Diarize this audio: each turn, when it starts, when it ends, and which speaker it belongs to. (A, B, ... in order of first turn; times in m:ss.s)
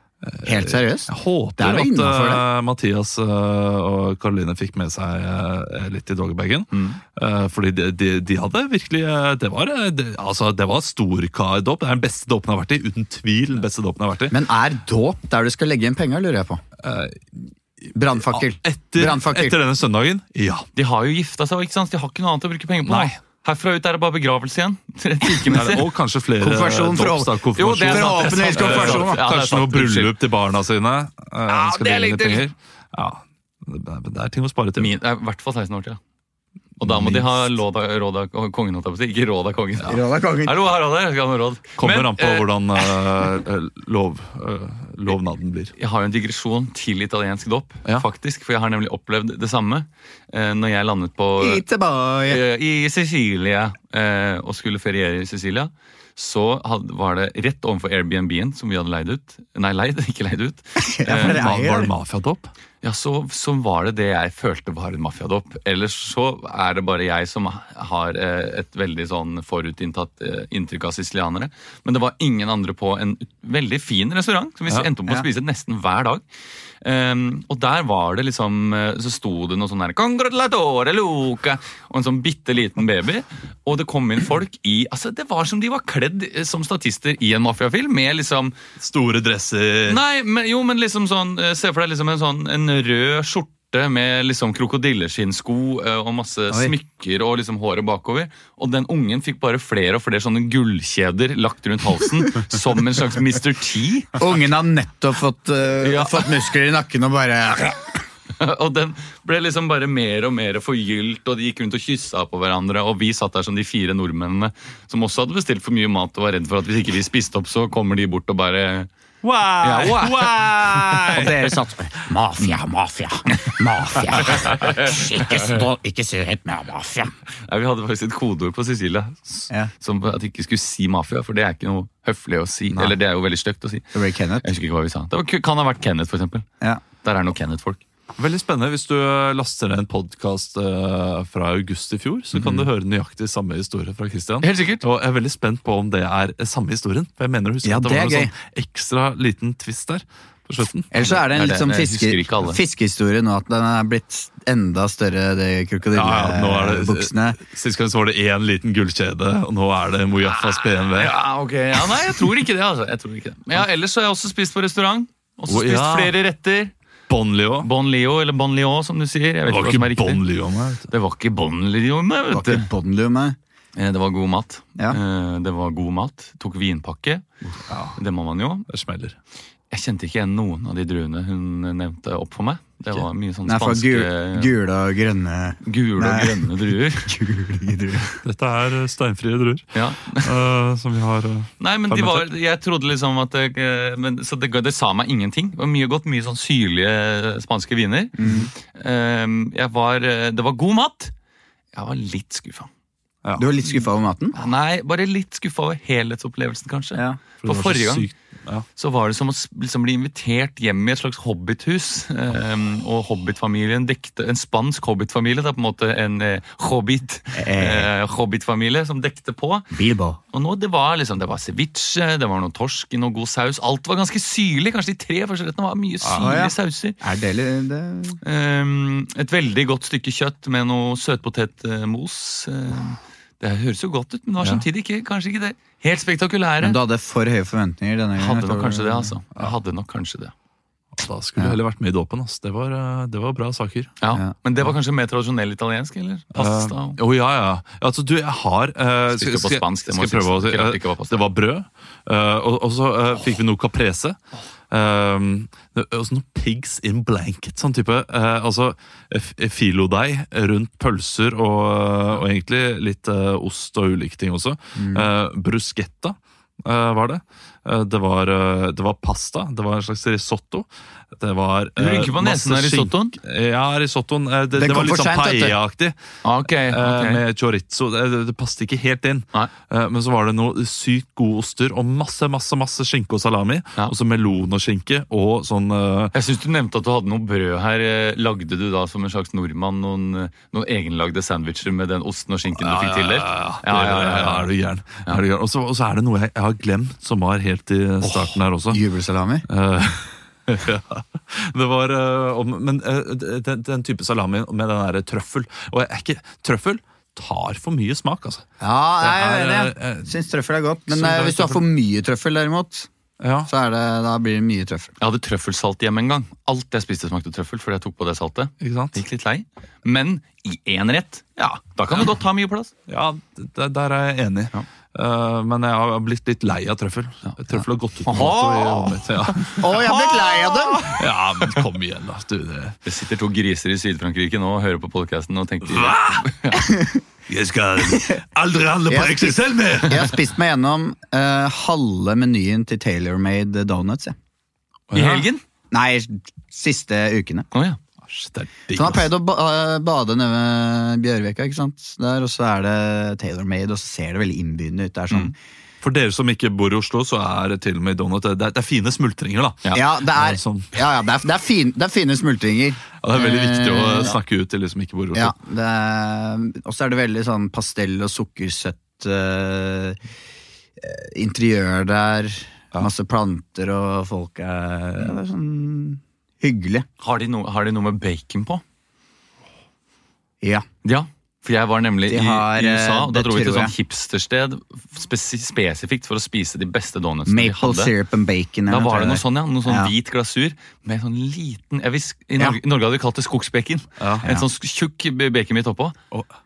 0:00.2-0:14.4 A
0:00.4-0:02.4 B
0:06.7-0:07.0 C
0:14.3-0:16.6 B
0:16.8-0:17.2 A
0:17.9-0:19.6 B
0:18.1-0:20.7 A
0:20.8-0:25.9 C
0:22.8-0:23.2 A
0:25.5-0:34.9 A
0:26.4-0:29.2 B
0:27.6-0:30.2 C
0:31.5-0:32.4 C
0:34.8-0:36.0 C
0:36.8-0:37.5 A
0:36.8-0:42.5 C
0:39.8-0:40.6 B
0:41.8-0:45.7 A
0:45.8-0:51.6 C
0:51.4-0:52.4 B
0:52.3-1:01.4 C
1:00.8-1:01.9 B
1:01.1-1:02.5 A
1:02.8-1:16.2 C
1:16.8-1:28.5 C
1:28.8-1:30.0 A
1:29.9-1:44.2 C
1:44.2-1:48.0 B
1:45.8-1:46.3 C
1:48.4-1:58.9 C
1:59.2-2:01.5 A
1:59.6-2:00.9 C
2:01.1-2:07.1 B
2:04.2-2:05.6 C
2:07.4-2:16.4 C
2:13.9-2:14.4 B
2:17.0-2:17.8 C
2:18.2-2:30.9 A
2:24.4-2:24.8 C
2:27.6-2:28.3 B
2:30.9-2:37.4 B
2:31.0-2:32.6 C
2:35.9-2:41.2 A
2:40.8-2:46.7 C
2:45.5-2:46.1 A
2:47.1-2:47.7 A
2:47.6-2:50.2 C
2:49.5-2:50.9 A
2:50.9-2:52.7 C
2:52.3-2:53.4 B
2:53.8-2:58.7 C
2:57.7-2:58.0 A
2:58.7-2:59.2 A
2:59.7-3:04.5 C
3:03.4-3:08.2 B
3:05.6-3:07.1 C
3:08.2-3:12.3 A
3:09.7-3:10.3 C
3:11.6-3:21.1 C
3:18.2-3:18.5 B
3:21.7-3:22.7 C
3:23.4-3:24.4 B
3:24.3-3:28.1 C
3:27.4-3:28.6 A
3:28.8-3:39.7 C
3:37.4-3:37.9 B
3:39.7-3:40.2 B
3:40.3-3:47.0 C
3:46.0-3:48.2 B
3:48.2-3:56.8 C
3:56.6-3:59.1 B
3:58.2-4:00.3 C
4:01.0-4:03.9 A
4:04.0-4:07.0 C
4:06.3-4:14.2 A
4:09.1-4:11.3 C
4:14.7-4:36.0 A
4:24.8-4:25.1 B
4:31.8-4:33.2 C
4:34.6-4:35.6 B
4:36.2-4:37.2 C
4:36.5-4:46.1 A
4:46.1-4:54.5 C
4:52.5-4:58.8 A
4:58.7-4:59.4 B
4:59.5-5:08.4 A
5:08.6-5:12.9 B
5:09.0-5:10.1 A
5:10.9-5:11.6 A
5:13.2-5:13.5 A
5:13.5-5:14.9 B
5:15.0-5:22.7 C
5:18.6-5:19.0 A
5:22.9-5:32.8 A
5:28.0-5:29.0 C
5:29.6-5:30.9 B
5:32.8-5:36.6 C
5:35.6-5:36.6 A
5:36.7-5:37.0 B
5:37.3-5:40.2 A
5:37.9-5:38.2 B
5:38.9-5:44.2 B
5:44.9-5:45.2 A
5:44.9-5:45.4 C
5:45.7-5:47.5 B
5:47.5-5:47.8 C
5:48.0-5:49.1 A
5:48.7-5:55.3 B
5:55.8-6:00.7 A
5:59.7-6:04.1 B
6:03.0-6:05.3 A
6:05.1-6:10.0 B
6:10.8-6:16.9 B
6:17.0-6:18.6 C
6:20.8-6:27.9 C
6:22.1-6:23.7 B
6:27.3-6:29.9 B
6:28.7-6:36.0 C
6:34.0-6:34.3 A